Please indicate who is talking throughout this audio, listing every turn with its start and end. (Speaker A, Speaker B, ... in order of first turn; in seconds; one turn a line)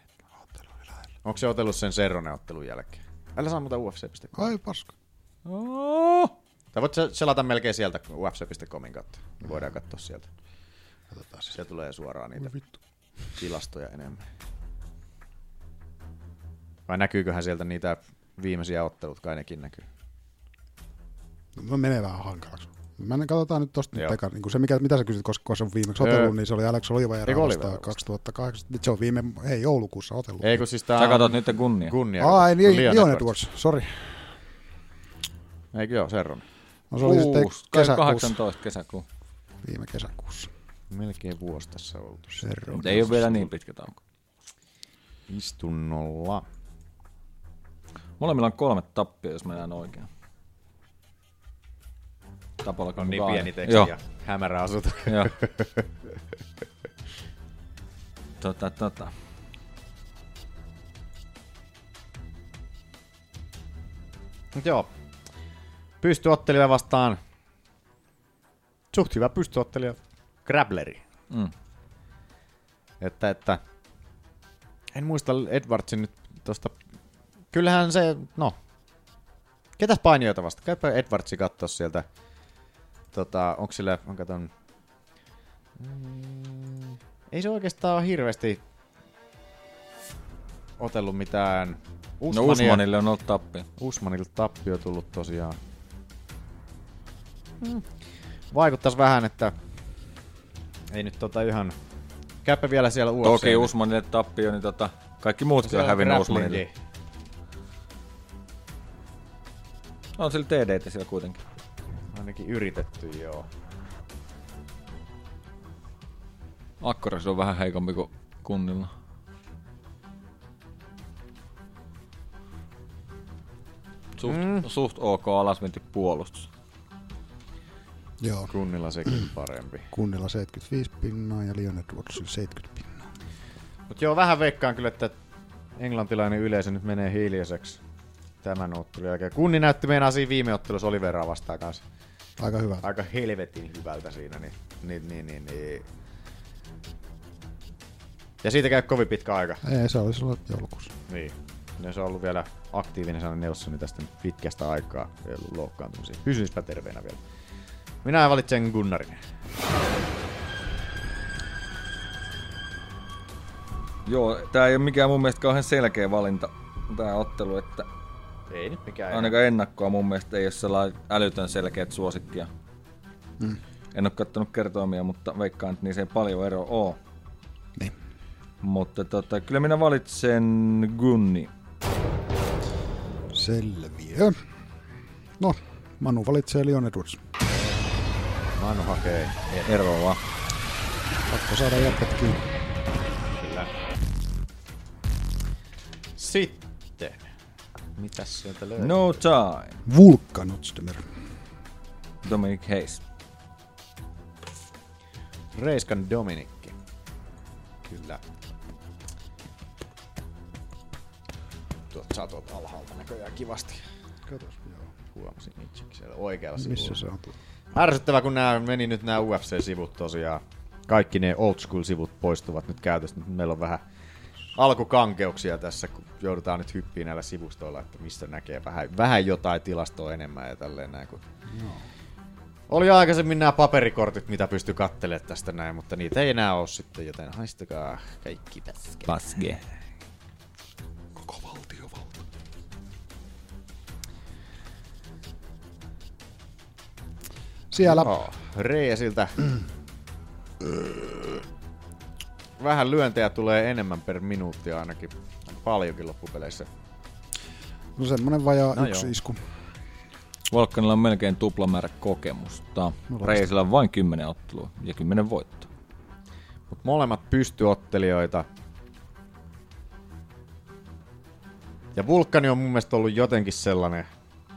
Speaker A: 0.5-1.0
Speaker B: 1.2-4.5
Speaker A: 4.3-4.9
Speaker C: 5.5-6.3
Speaker B: 6.7-10.3
Speaker A: 11.1-11.5
Speaker B: 11.5-12.6
Speaker B: 13.3-14.2
Speaker B: 16.9-19.9
Speaker A: 21.6-30.6
Speaker B: 26.0-26.3
Speaker B: 27.2-28.0
Speaker B: 30.4-33.3
Speaker C: 31.0-31.9
Speaker A: 32.2-34.4
Speaker B: 35.7-36.4
Speaker A: 36.9-38.4
Speaker C: 37.0-39.0
Speaker A: 39.6-40.5
Speaker B: 40.9-43.5
Speaker A: 42.4-43.1
Speaker C: 42.8-44.0
Speaker B: 45.3-46.4
Speaker C: 48.2-50.1
Speaker C: 52.6-53.9
Speaker B: 53.0-55.9
Speaker C: 58.4-59.1
Speaker B: 64.5-64.9
Speaker B: 66.0-67.2
Speaker B: 68.9-71.0
Speaker B: 73.0-73.6
Speaker B: 74.9-76.7
Speaker B: 77.5-78.5
Speaker B: 79.8-82.0
Speaker B: 83.1-84.5
Speaker B: 85.8-88.6
Speaker B: 90.8-92.8
Speaker C: 92.3-93.7
Speaker B: 93.8-95.6
Speaker B: 97.6-97.9
Speaker B: 98.5-99.5
Speaker B: 100.9-101.8
Speaker B: 102.4-103.7
Speaker C: 103.2-106.6
Speaker B: 105.6-106.7
Speaker C: 110.2-111.4
Speaker B: 112.1-113.5
Speaker C: 116.8-118.9
Speaker C: 124.2-126.5
Speaker B: 124.2-124.6
Speaker A: 128.2-128.5
Speaker B: 128.5-129.9
Speaker A: 129.9-133.1
Speaker B: 133.9-135.2
Speaker B: 135.8-137.8
Speaker B: 138.4-141.8
Speaker A: 142.4-142.8
Speaker B: 142.8-145.8
Speaker B: 148.4-149.6
Speaker A: 149.6-150.9
Speaker B: 151.1-157.2
Speaker B: 158.0-159.2
Speaker C: 164.1-167.9
Speaker B: 168.5-169.4
Speaker C: 169.1-172.5
Speaker C: 173.9-177.0
Speaker C: 178.6-181.5
Speaker A: 183.3-184.4
Speaker A: 185.4-187.2
Speaker B: 187.5-187.8
Speaker B: 188.6-189.7
Speaker C: 189.7-190.2
Speaker A: 191.3-192.4
Speaker B: 193.3-193.7
Speaker B: 196.2-197.2
Speaker B: 197.9-199.2
Speaker C: 198.8-199.8
Speaker A: 199.8-201.1
Speaker C: 202.2-203.0
Speaker B: 205.5-206.7
Speaker B: 207.9-208.2
Speaker B: 211.9-213.8
Speaker A: 214.3-214.9
Speaker B: 215.1-217.0
Speaker A: 216.6-217.3
Speaker B: 217.7-223.8
Speaker B: 224.5-231.2
Speaker A: 231.5-231.9
Speaker B: 232.7-239.1
Speaker C: 239.1-239.6
Speaker A: 241.2-242.1
Speaker A: 247.7-248.1
Speaker B: 247.8-249.4
Speaker B: 252.6-256.7
Speaker A: 257.9-259.4
Speaker B: 258.7-259.1
Speaker C: 260.5-265.7
Speaker A: 263.1-263.4
Speaker B: 266.7-268.4
Speaker B: 271.9-274.1